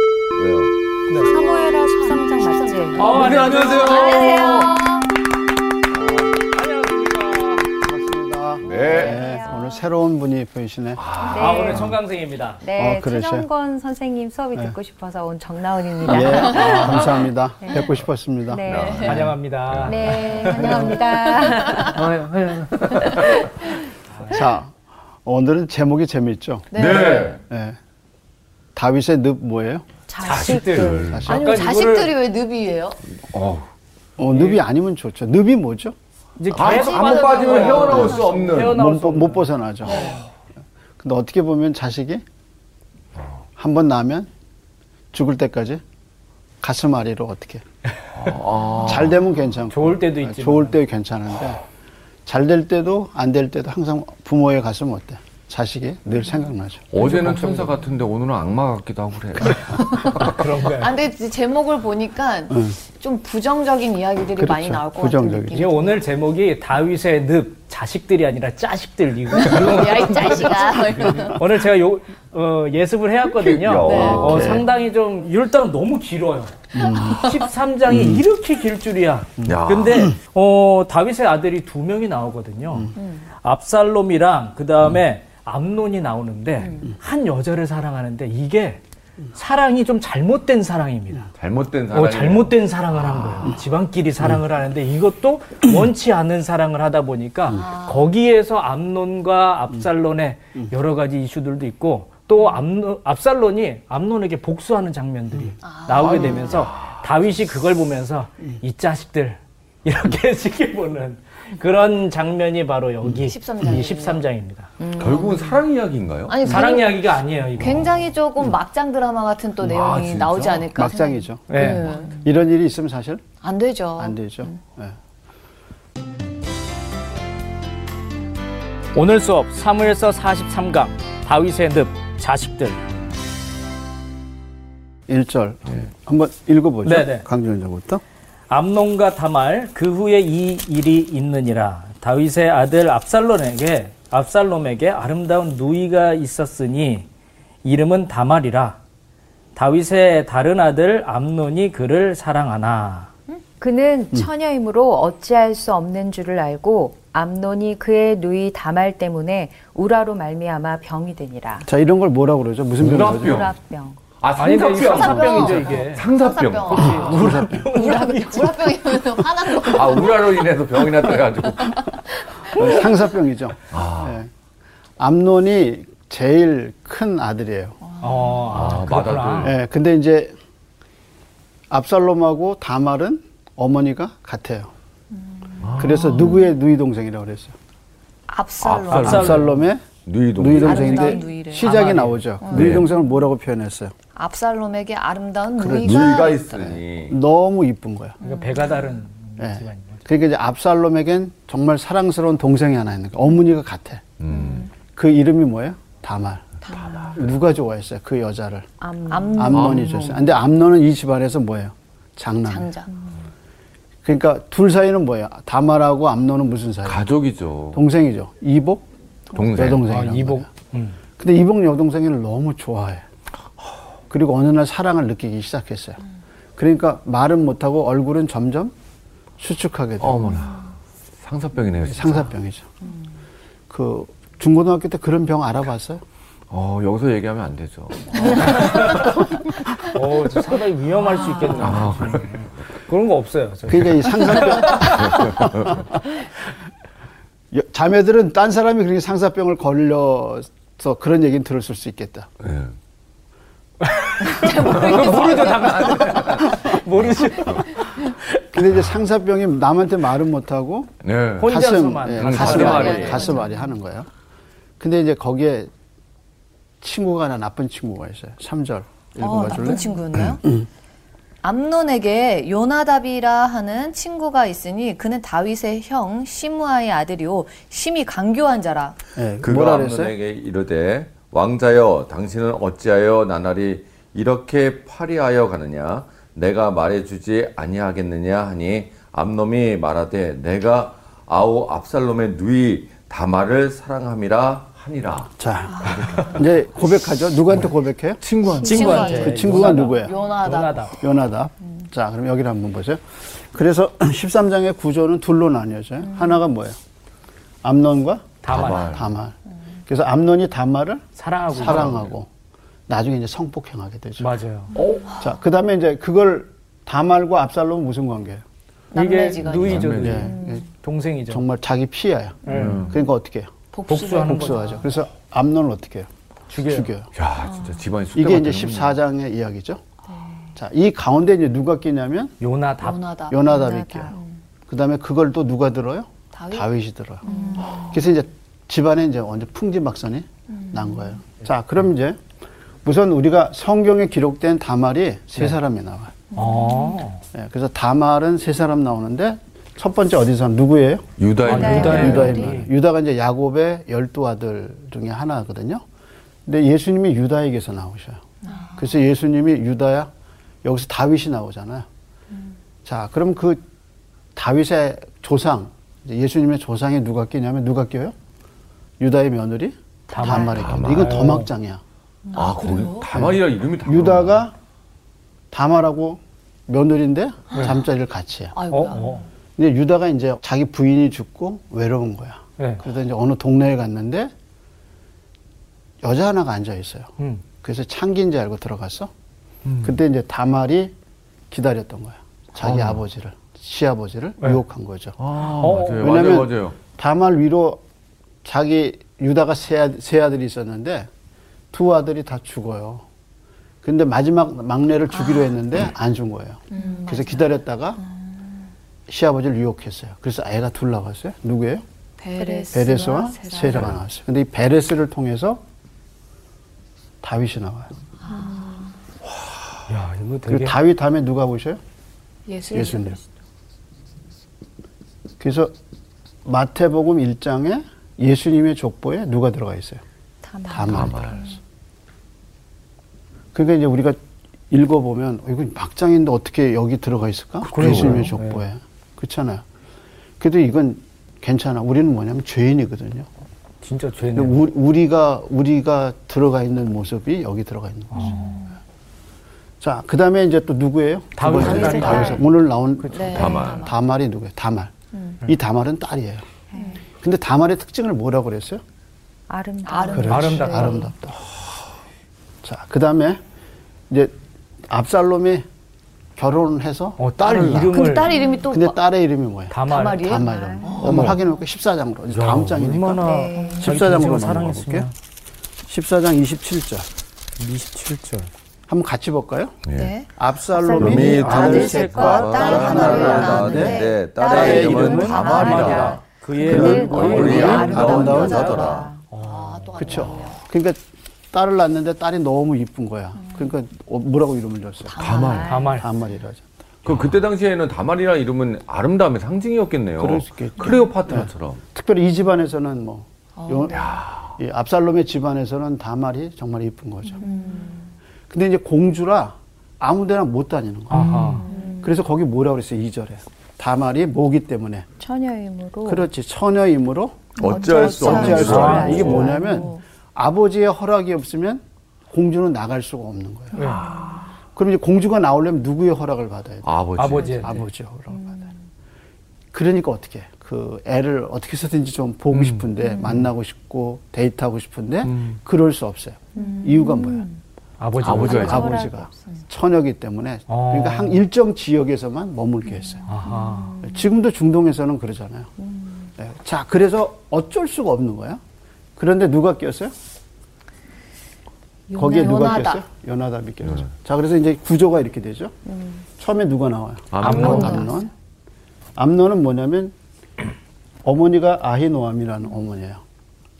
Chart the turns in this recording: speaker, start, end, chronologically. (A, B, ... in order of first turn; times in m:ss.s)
0:00.3-0:00.7 A
0:01.1-0:01.3 B
0:01.3-0:04.9 C
0:02.9-0:05.1 D
0:03.0-0:04.7 B
0:03.0-0:04.7 A
0:05.9-0:06.2 A
0:06.4-0:07.7 B
0:07.7-0:11.0 E
0:08.6-0:09.2 A
0:08.7-0:09.7 C
0:11.0-0:12.0 A
0:11.3-0:11.9 C
0:11.3-0:12.6 B
0:12.6-0:16.9 C
0:12.8-0:13.5 E
0:16.0-0:18.6 E
0:16.1-0:17.1 D
0:16.6-0:16.9 B
0:18.5-0:19.0 C
0:18.6-0:21.0 A
0:18.7-0:19.2 D
0:19.0-0:20.9 B
0:19.8-0:22.0 C
0:21.7-0:23.7 A
0:24.3-0:27.8 E
0:26.7-0:27.4 D
0:26.7-0:27.4 A
0:28.7-0:29.8 E
0:30.1-0:31.1 C
0:30.2-0:31.4 A
0:30.2-0:32.1 B
0:31.1-0:31.6 E
0:31.3-0:33.0 D
0:33.2-0:33.7 A
0:34.2-0:35.9 E
0:34.3-0:34.6 B
0:36.4-0:39.4 B
0:36.5-0:38.8 A
0:36.6-0:38.6 D
0:38.6-0:40.2 E
0:39.8-0:40.2 D
0:41.0-0:42.2 E
0:43.6-0:44.3 E
0:45.1-0:45.8 E
0:46.6-0:47.6 E
0:48.1-0:49.2 A
0:48.8-0:51.6 E
0:49.7-0:50.8 B
0:52.2-0:56.8 E
0:56.9-1:00.4 A
0:57.0-0:57.8 B
1:00.0-1:06.0 D
1:00.2-1:01.0 B
1:02.5-1:02.8 E
1:04.4-1:05.7 E
1:05.5-1:28.8 B
1:09.4-1:11.4 D
1:13.3-1:14.6 A
1:13.8-1:14.4 D
1:14.0-1:14.6 E
1:16.7-1:17.3 E
1:17.9-1:18.2 E
1:19.4-1:20.1 A
1:23.0-1:23.3 D
1:26.6-1:26.9 D
1:29.3-1:31.3 B
1:31.4-1:32.6 A
1:31.9-1:54.7 B
1:37.5-1:38.1 D
1:45.6-1:46.7 D
1:46.0-1:47.0 A
1:53.3-1:54.2 D
1:54.8-1:55.6 D
1:55.0-1:56.4 A
1:56.3-2:02.2 D
1:56.4-1:57.9 B
1:59.6-2:00.7 A
2:00.7-2:03.2 E
2:01.5-2:01.9 B
2:03.4-2:04.5 D
2:04.0-2:05.0 E
2:08.9-2:12.8 B
2:15.1-2:18.0 E
2:16.8-2:17.2 B
2:18.5-2:27.1 B
2:27.6-2:28.8 B
2:29.6-2:33.1 B
2:33.6-2:41.6 C
2:41.6-2:43.5 E
2:42.8-2:43.5 A
2:43.1-2:44.0 C
2:44.2-2:47.4 A
2:44.4-2:46.1 B
2:44.8-2:50.5 D
2:45.0-2:45.5 E
2:46.7-2:49.8 B
2:46.8-2:47.7 E
2:49.6-2:52.0 A
2:52.6-2:54.3 E
2:53.7-2:54.2 A
2:55.0-2:57.8 E
2:57.8-2:58.5 D
2:58.0-2:59.5 B
2:58.5-2:59.5 A
2:59.4-3:00.3 E
3:01.7-3:04.7 E
3:05.1-3:06.3 D
3:05.6-3:06.3 A
3:05.8-3:07.5 E
3:08.3-3:09.4 D
3:08.6-3:09.5 A
3:08.9-3:09.5 B
3:08.9-3:09.8 E
3:10.0-3:11.1 A
3:10.3-3:13.9 E
3:10.6-3:11.7 D
3:10.6-3:12.4 B
3:12.4-3:13.0 D
3:12.5-3:12.8 A
3:14.1-3:16.8 D
3:15.6-3:16.4 E
3:15.7-3:17.1 A
3:17.1-3:18.2 E
3:18.2-3:18.9 D
3:18.2-3:20.0 B
3:19.4-3:24.1 E
3:24.2-3:24.7 A
3:24.3-3:24.7 D
3:24.9-3:26.5 E
3:26.7-3:27.3 A
3:26.7-3:27.0 D
3:27.1-3:28.7 E
3:28.8-3:29.5 C
3:29.1-3:29.8 D
3:29.3-3:32.7 E
3:29.4-3:30.3 A
3:32.4-3:32.9 D
3:34.0-3:37.1 E
3:36.8-3:37.8 A
3:37.7-3:38.8 E
3:39.3-3:39.8 A
3:39.5-3:40.5 E
3:39.8-3:41.0 B
3:41.2-3:43.0 E
3:44.1-3:46.0 E
3:46.6-3:48.7 E
3:49.4-3:50.4 E
3:50.0-3:52.3 A
3:51.9-3:52.7 E
3:53.7-3:56.0 E
3:56.5-3:59.2 A
3:58.6-3:59.1 B
3:59.8-4:04.9 B
4:01.3-4:01.8 D
4:01.6-4:02.4 A
4:03.7-4:06.2 E
4:05.0-4:05.8 A
4:07.5-4:12.3 E
4:12.4-4:12.7 A
4:13.8-4:18.4 B
4:14.2-4:16.7 D
4:15.8-4:17.7 A
4:18.5-4:20.9 E
4:21.0-4:23.4 A
4:21.4-4:23.2 B
4:21.4-4:24.1 E
4:22.3-4:23.6 D
4:24.8-4:25.7 E
4:26.8-4:29.8 E
4:29.2-4:30.4 D
4:31.4-4:39.0 D
4:39.1-4:40.1 E
4:39.4-4:56.8 A
4:55.4-4:58.2 E
4:58.2-4:59.2 A
4:58.5-5:01.0 D
4:58.6-5:01.0 B
4:58.9-5:00.1 E
5:01.0-5:06.8 E
5:07.6-5:09.3 E
5:08.4-5:09.0 B
5:08.5-5:09.1 A
5:09.9-5:12.3 E
5:11.2-5:11.9 B
5:11.6-5:12.1 A
5:12.9-5:14.3 E
5:14.2-5:15.1 B
5:15.2-5:18.4 E
5:18.9-5:20.6 D
5:18.9-5:21.4 B
5:19.4-5:20.2 A
5:20.0-5:20.6 E
5:21.3-5:23.5 E
5:22.4-5:22.8 B
5:22.5-5:23.0 A
5:23.7-5:24.8 D
5:23.9-5:24.8 B
5:24.2-5:26.1 E
5:26.5-5:26.9 B
5:26.6-5:27.1 E
5:27.1-5:29.0 A
5:27.5-5:27.7 D
5:28.1-5:29.8 E
5:30.6-5:32.3 E
5:32.4-5:33.0 B
5:32.8-5:33.4 D
5:33.3-5:34.1 E
5:33.4-5:34.2 C
5:34.7-5:42.2 E
5:36.3-5:36.7 D
5:37.2-5:38.0 D
5:37.2-5:37.7 C
5:40.5-5:41.0 D
5:42.8-5:46.2 E
5:46.3-5:47.0 D
5:46.3-5:47.2 B
5:47.3-5:55.8 E
5:51.2-5:52.4 A
5:51.4-5:52.7 B
5:51.6-5:52.3 C
5:51.8-5:52.3 D
5:56.4-5:58.2 E
5:58.4-5:58.9 D
5:58.7-6:00.1 E
6:00.6-6:01.8 E
6:02.8-6:03.6 E
6:04.3-6:08.2 E
6:09.0-6:11.8 E
6:10.1-6:10.6 D
6:10.1-6:11.5 B
6:10.5-6:11.4 A
6:12.2-6:13.1 D
6:12.3-6:14.4 A
6:13.1-6:14.5 E
6:15.5-6:18.6 E
6:18.5-6:19.3 D
6:18.7-6:19.2 B
6:19.6-6:24.3 E
6:26.0-6:29.1 E
6:29.8-6:30.9 E
6:31.5-6:35.2 E
6:32.6-6:33.0 A
6:35.2-6:36.8 A
6:35.6-6:36.1 B
6:35.9-6:37.8 E
6:38.4-6:41.1 E
6:41.7-6:43.0 E
6:43.8-6:48.0 E
6:45.1-6:45.8 D
6:46.7-6:48.3 D
6:49.1-6:51.8 E
6:52.2-6:53.9 D
6:52.4-6:52.9 C
6:52.7-6:55.6 E
6:57.2-6:57.9 E
6:58.2-6:58.9 D
6:59.9-7:00.7 B
7:00.5-7:01.8 E
7:02.5-7:03.2 D
7:02.7-7:03.2 E
7:05.4-7:05.7 E
7:06.4-7:10.0 E
7:10.4-7:11.1 C
7:10.7-7:11.4 E
7:10.8-7:11.5 A
7:13.5-7:14.2 E
7:14.7-7:19.6 E
7:17.7-7:18.6 B
7:17.7-7:18.3 A
7:20.4-7:23.3 E
7:23.8-7:24.6 B
7:24.3-7:28.4 E
7:28.1-7:28.6 B
7:28.2-7:28.7 D
7:29.8-7:34.9 E
7:31.4-7:32.5 B
7:31.5-7:32.4 D
7:33.0-7:33.6 B
7:33.1-7:34.0 D
7:33.3-7:33.9 A
7:35.4-7:36.4 E
7:36.7-7:37.0 C
7:37.2-7:38.8 E
7:39.5-7:41.0 C
7:39.8-7:41.0 D
7:40.1-7:41.5 E
7:40.2-7:41.0 B
7:42.6-7:43.4 E
7:44.9-7:45.6 E
7:46.4-7:55.1 E
7:47.2-7:48.4 B
7:47.9-7:49.0 D
7:49.7-7:50.4 B
7:49.9-7:51.3 D
7:50.4-7:51.0 C
7:51.0-7:51.4 B
7:52.3-7:55.1 B
7:53.2-7:53.9 C
7:53.5-7:53.8 D
7:55.9-7:57.1 E
7:57.6-7:58.5 B
7:58.9-7:59.7 E
7:59.9-8:00.1 A
7:59.9-8:00.3 D
8:00.4-8:05.5 E
8:00.7-8:09.2 C
8:01.0-8:06.2 A
8:01.0-8:03.5 B
8:01.6-8:10.6 D
8:04.5-8:08.7 B
8:06.6-8:08.8 E
8:07.0-8:09.1 A
8:09.3-8:10.2 B
8:10.0-8:11.0 E
8:11.5-8:15.1 E
8:15.0-8:16.1 D
8:15.2-8:15.8 A
8:15.6-8:16.1 B
8:15.9-8:17.1 E
8:17.0-8:21.8 A
8:20.2-8:27.4 E
8:23.6-8:24.1 D
8:23.9-8:24.5 A
8:27.4-8:28.1 D
8:28.5-8:35.1 E
8:31.1-8:31.7 B
8:31.2-8:32.1 D
8:35.2-8:36.2 C
8:36.0-8:43.8 E
8:37.6-8:39.4 A
8:37.6-8:40.0 D
8:37.6-8:40.0 C
8:38.4-8:39.5 B
8:43.8-8:44.2 B
8:43.8-8:44.2 D
8:44.7-8:48.6 E
8:46.8-8:47.8 A
8:47.2-8:47.7 B
8:49.7-8:57.5 E
8:52.6-8:53.4 B
8:55.2-8:55.5 A
8:56.6-8:57.4 C
8:58.0-8:58.8 B
8:58.2-8:58.9 A
8:58.2-9:03.2 E
8:58.3-8:59.4 C
9:00.7-9:01.4 B
9:03.3-9:04.0 B
9:03.3-9:04.1 D
9:04.0-9:05.7 E
9:06.4-9:08.6 E
9:09.2-9:10.1 E
9:12.1-9:13.0 D
9:12.1-9:15.8 E
9:16.4-9:18.3 E
9:17.3-9:18.1 A
9:17.4-9:18.1 D
9:17.4-9:18.0 B
9:19.2-9:20.1 E
9:21.2-9:23.2 E